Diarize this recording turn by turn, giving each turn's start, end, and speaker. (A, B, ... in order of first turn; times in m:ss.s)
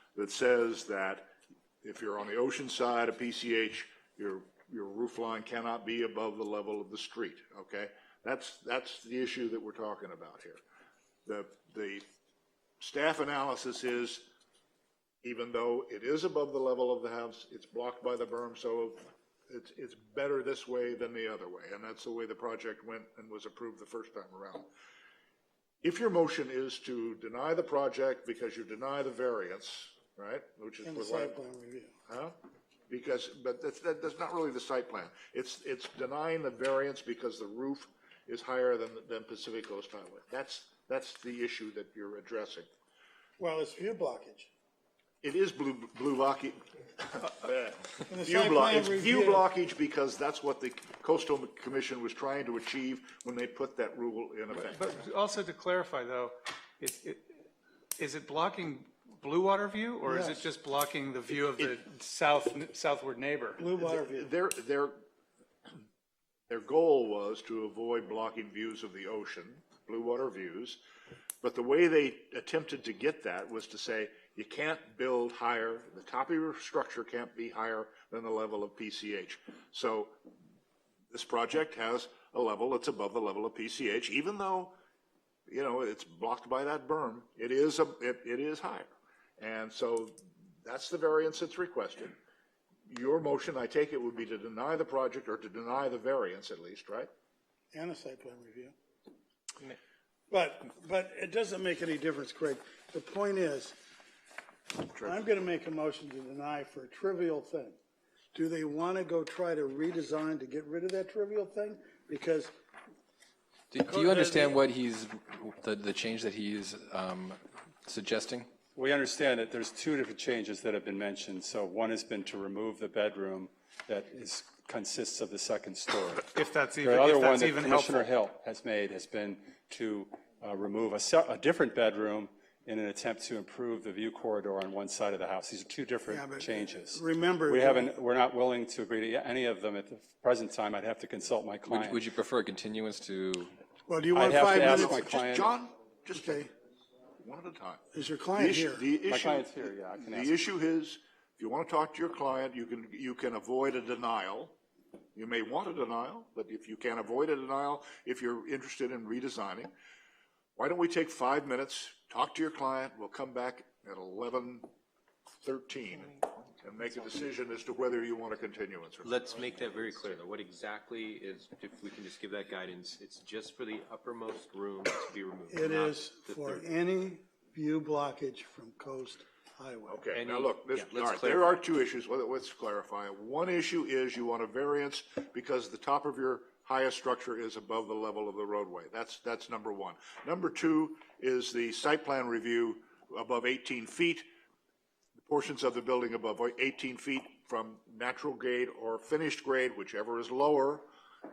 0:00.2-0:01.3 A
0:01.8-0:10.6 A
0:11.2-0:12.0 A
0:12.8-0:14.3 A
0:15.2-0:24.7 A
0:25.8-0:31.3 A
0:30.8-0:31.9 B
0:32.1-0:32.3 A
0:32.9-0:42.7 A
0:43.4-0:44.5 B
0:45.2-0:54.9 A
0:48.1-0:49.4 B
0:54.6-0:57.2 C
0:58.0-1:03.6 C
1:00.0-1:00.4 B
1:03.6-1:04.3 B
1:03.8-1:05.0 A
1:06.5-1:10.8 A
1:11.4-1:20.2 A
1:21.1-1:24.7 A
1:25.5-1:32.2 A
1:32.9-1:37.1 A
1:37.7-1:38.7 B
1:40.3-1:43.8 B
1:44.8-1:47.8 B
1:48.3-1:52.5 B
1:53.7-1:58.5 D
1:53.8-1:54.6 B
1:58.7-2:22.0 E
2:06.3-2:08.1 C
2:16.1-2:18.0 B
2:21.7-2:23.5 D
2:23.9-2:25.1 B
2:24.1-2:25.5 E
2:24.4-2:26.5 A
2:26.1-2:26.5 B
2:27.2-2:27.8 A
2:27.9-2:28.9 B
2:28.3-2:34.5 A
2:29.0-2:30.4 E
2:35.2-2:39.7 A
2:40.6-2:44.7 A
2:45.4-2:49.4 A
2:49.0-2:56.8 F
2:55.5-3:00.0 B
2:59.9-3:14.2 A
3:00.1-3:01.6 F
3:15.2-3:20.9 A